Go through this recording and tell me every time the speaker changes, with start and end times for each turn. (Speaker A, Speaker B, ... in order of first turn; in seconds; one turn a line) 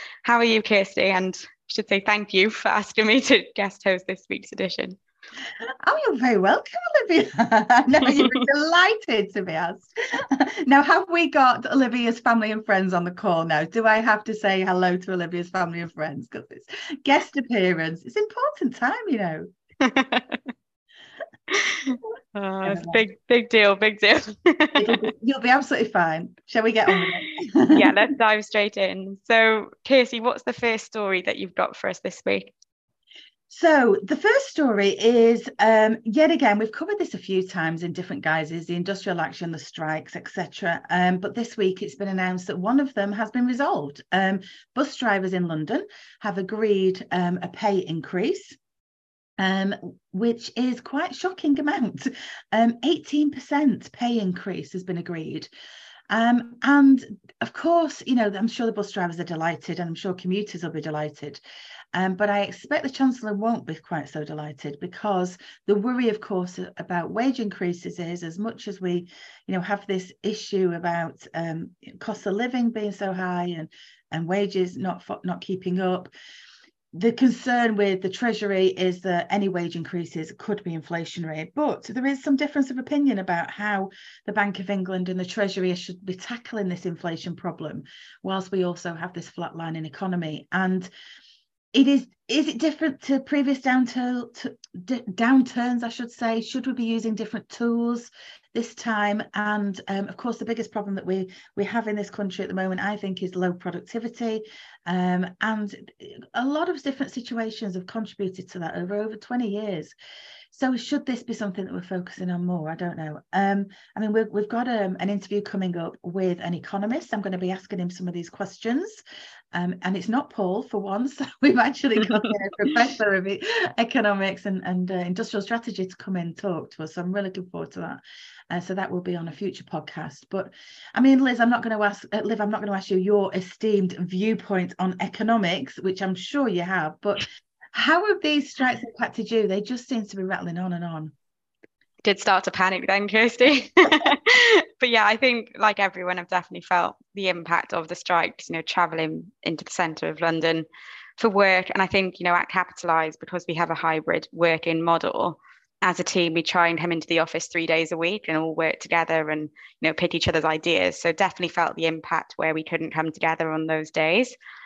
Speaker A: 0.2-5.0
Speaker B: 5.8-19.5
Speaker A: 19.8-20.4
Speaker A: 21.5-25.0
Speaker B: 22.6-23.0
Speaker B: 24.8-27.9
Speaker A: 27.7-32.5
Speaker B: 33.5-48.5
Speaker B: 49.4-55.5
Speaker B: 56.1-61.4
Speaker B: 61.9-76.1
Speaker B: 76.9-90.9
Speaker B: 91.7-109.9
Speaker B: 110.5-119.0
Speaker B: 119.5-141.1
Speaker A: 142.0-150.7
Speaker A: 151.2-164.3